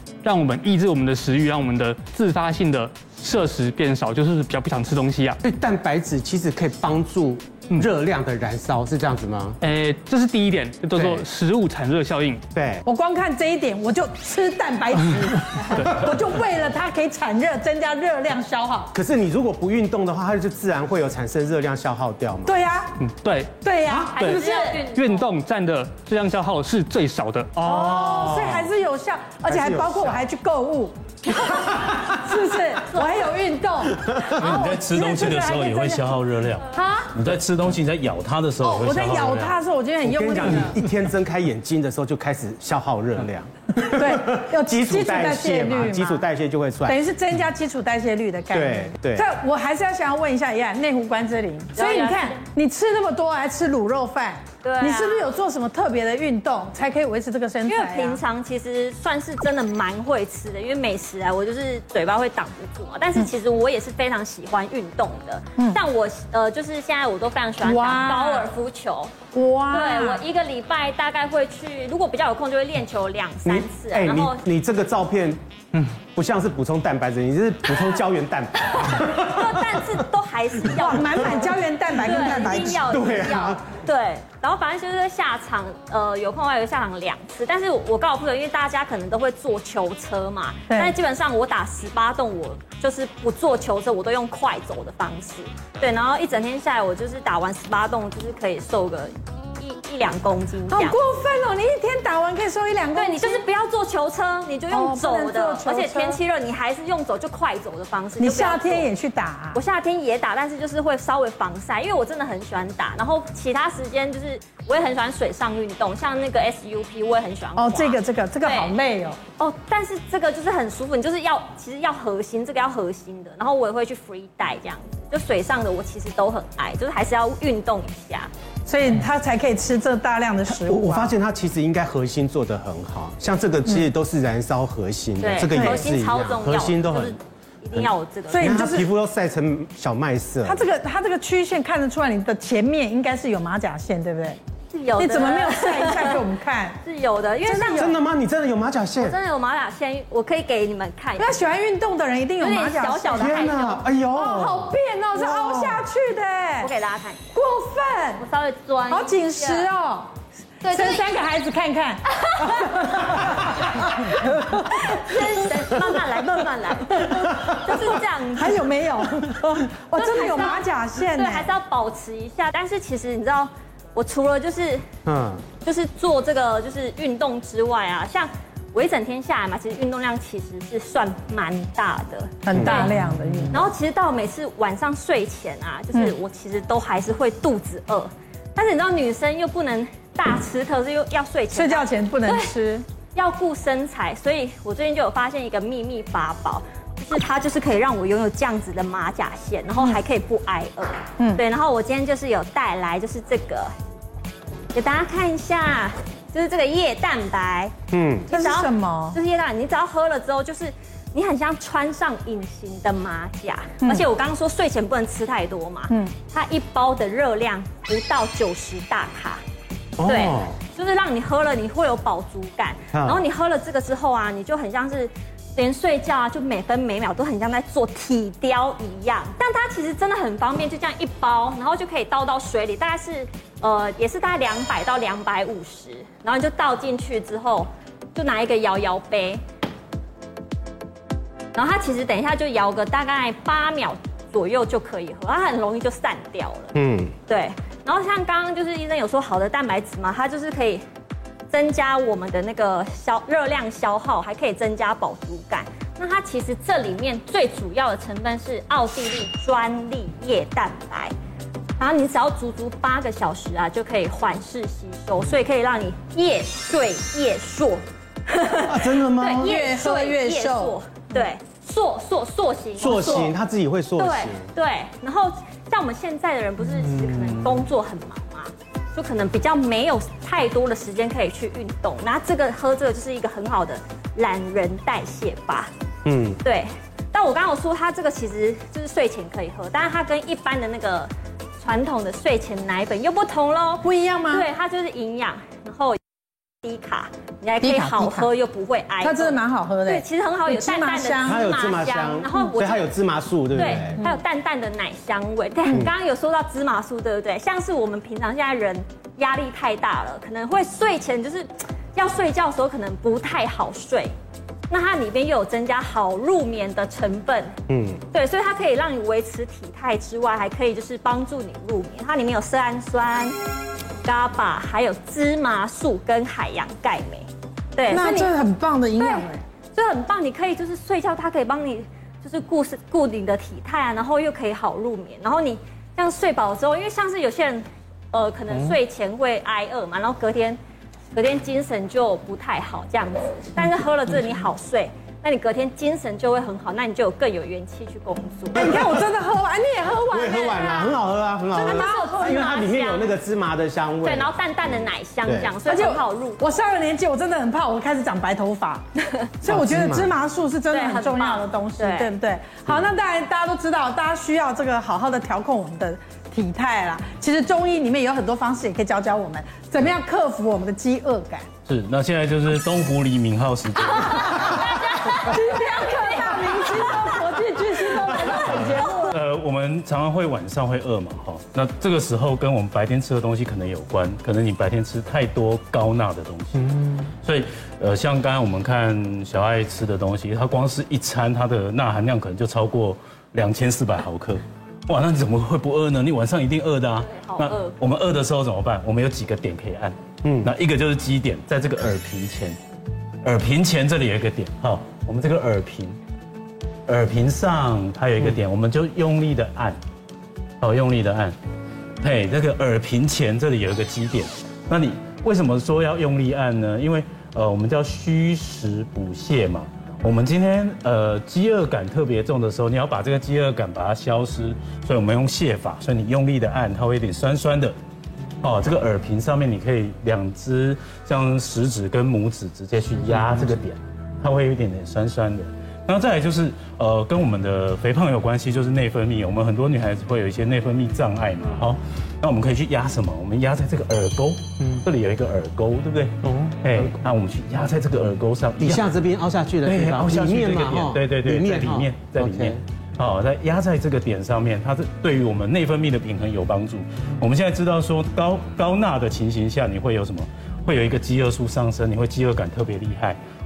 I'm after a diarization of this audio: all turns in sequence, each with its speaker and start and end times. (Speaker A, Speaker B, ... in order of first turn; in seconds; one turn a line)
Speaker A: 0.2-5.4
Speaker B: 5.4-9.6
Speaker A: 9.6-12.4
Speaker B: 10.9-11.3
Speaker B: 12.5-12.8
Speaker C: 12.8-18.9
Speaker B: 18.9-22.5
Speaker C: 22.4-23.0
Speaker A: 23.0-23.5
Speaker C: 23.6-24.9
Speaker D: 23.9-25.2
Speaker A: 24.2-27.5
Speaker B: 27.6-28.8
Speaker C: 27.6-36.0
Speaker B: 29.5-30.3
Speaker B: 31.6-32.2
Speaker E: 34.3-39.6
Speaker C: 36.7-37.2
Speaker C: 38.6-40.8
Speaker B: 40.0-47.0
Speaker C: 43.8-46.2
Speaker C: 46.9-58.2
Speaker B: 48.5-49.3
Speaker D: 51.8-52.4
Speaker D: 54.6-55.3
Speaker D: 57.7-69.1
Speaker C: 67.6-68.5
Speaker C: 69.3-70.2
Speaker D: 69.7-74.5
Speaker B: 73.5-75.4
Speaker B: 76.2-79.9
Speaker D: 78.9-101.0
Speaker C: 80.8-83.0
Speaker B: 82.8-83.7
Speaker C: 100.7-103.4
Speaker D: 103.0-108.9
Speaker C: 104.7-106.2
Speaker C: 108.2-109.6
Speaker D: 109.5-118.7
Speaker C: 117.6-119.2
Speaker D: 119.4-128.3
Speaker C: 128.7-131.2
Speaker B: 130.5-137.2
Speaker D: 135.2-138.6
Speaker C: 135.5-135.9
Speaker B: 137.8-140.6
Speaker C: 138.3-138.9
Speaker C: 140.4-144.4
Speaker D: 144.7-146.2
Speaker C: 145.0-146.8
Speaker D: 146.8-148.0
Speaker C: 147.4-148.0
Speaker B: 147.8-149.2
Speaker D: 149.0-151.3
Speaker C: 151.2-153.5
Speaker D: 152.4-153.8
Speaker B: 153.1-155.8
Speaker C: 154.1-156.7
Speaker D: 156.6-157.2
Speaker C: 157.3-158.2
Speaker D: 158.2-159.7
Speaker C: 158.9-165.0
Speaker D: 160.6-161.1
Speaker D: 162.3-162.7
Speaker D: 164.7-168.6
Speaker C: 167.8-171.5
Speaker D: 170.0-170.6
Speaker D: 171.2-174.8
Speaker B: 175.1-175.4
Speaker D: 175.6-182.9
Speaker C: 182.4-183.7
Speaker B: 182.5-182.9
Speaker D: 183.5-192.5
Speaker C: 191.5-192.8
Speaker D: 193.1-203.7
Speaker C: 201.2-201.4
Speaker D: 204.7-207.7
Speaker B: 207.9-208.3
Speaker D: 208.3-219.4
Speaker C: 208.3-209.2
Speaker B: 220.0-220.5
Speaker D: 220.1-239.4
Speaker B: 222.9-223.2
Speaker D: 241.6-246.8
Speaker B: 246.8-247.1
Speaker D: 247.3-250.8
Speaker D: 251.5-261.1
Speaker D: 261.8-273.4
Speaker B: 268.7-269.5
Speaker C: 269.3-270.8
Speaker B: 272.8-274.5
Speaker D: 274.0-285.7
Speaker B: 286.1-286.4
Speaker D: 286.4-296.0
Speaker C: 293.8-294.5
Speaker D: 296.6-302.9
Speaker C: 297.6-298.3
Speaker C: 299.0-301.4
Speaker B: 301.3-304.0
Speaker D: 303.5-314.1
Speaker C: 303.8-304.2
Speaker D: 314.7-317.6
Speaker B: 317.7-318.0
Speaker D: 318.1-323.4
Speaker D: 324.0-328.3
Speaker C: 327.9-329.4
Speaker D: 329.0-340.6
Speaker D: 341.1-348.6
Speaker C: 348.6-351.0
Speaker B: 348.6-349.0
Speaker B: 350.1-354.7
Speaker C: 351.5-352.3
Speaker D: 351.6-353.1
Speaker D: 354.0-356.4
Speaker B: 355.2-355.5
Speaker C: 355.6-371.5
Speaker B: 359.5-360.1
Speaker D: 360.7-362.1
Speaker E: 371.7-375.0
Speaker D: 373.9-377.1
Speaker C: 375.1-379.2
Speaker D: 377.9-378.3
Speaker E: 378.5-402.6
Speaker D: 397.0-397.8
Speaker B: 400.2-400.5
Speaker E: 403.2-406.0
Speaker E: 406.9-409.8
Speaker E: 410.6-411.4
Speaker E: 412.0-427.8
Speaker E: 428.4-448.9
Speaker B: 448.6-452.6
Speaker E: 449.6-463.2